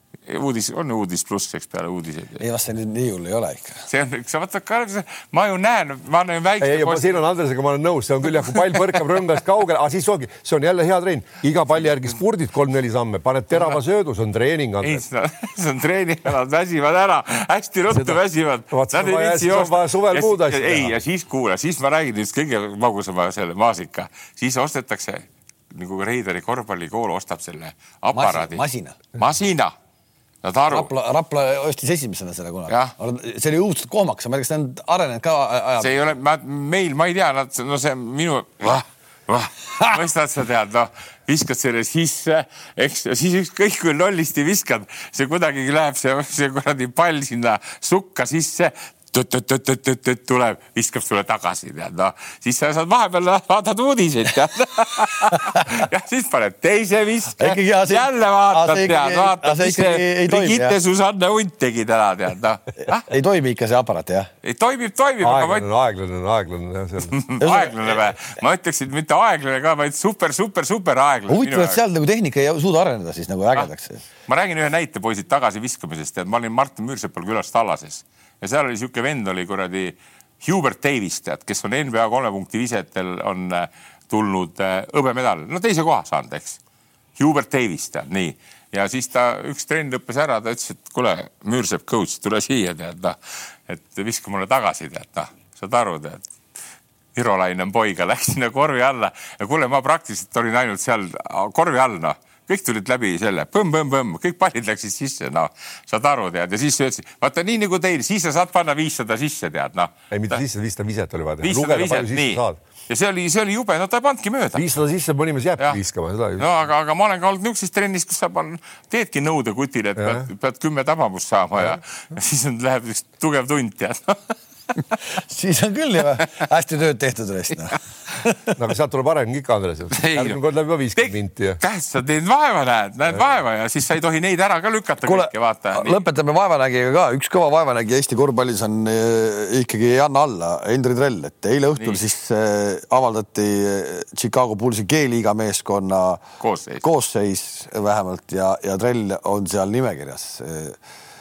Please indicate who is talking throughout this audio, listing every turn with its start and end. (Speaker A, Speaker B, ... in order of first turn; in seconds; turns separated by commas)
Speaker A: 0.3-2.4, Speaker B: 2.4-3.8, Speaker A: 3.9-7.2, Speaker C: 6.6-15.0, Speaker A: 8.4-8.9, Speaker A: 14.8-29.7, Speaker C: 17.9-18.2, Speaker C: 18.7-21.0, Speaker B: 28.1-29.0, Speaker A: 30.4-30.9, Speaker B: 30.7-35.9, Speaker A: 32.7-32.9, Speaker A: 35.8-63.1, Speaker B: 55.3-55.9, Speaker B: 57.4-60.8, Speaker B: 62.8-64.3, Speaker A: 64.4-65.7, Speaker C: 65.2-67.2, Speaker A: 67.1-71.8, Speaker B: 67.4-68.1, Speaker B: 71.3-74.0, Speaker A: 74.3-86.6, Speaker A: 87.2-96.2, Speaker A: 97.2-110.4, Speaker C: 110.1-112.6, Speaker A: 111.4-114.7, Speaker C: 114.5-116.5, Speaker A: 116.4-125.0, Speaker C: 120.0-120.3, Speaker B: 125.1-128.6, Speaker C: 128.6-131.6, Speaker A: 129.9-130.4, Speaker A: 131.0-136.0, Speaker B: 135.0-146.2, Speaker A: 146.4-146.8, Speaker B: 146.8-150.8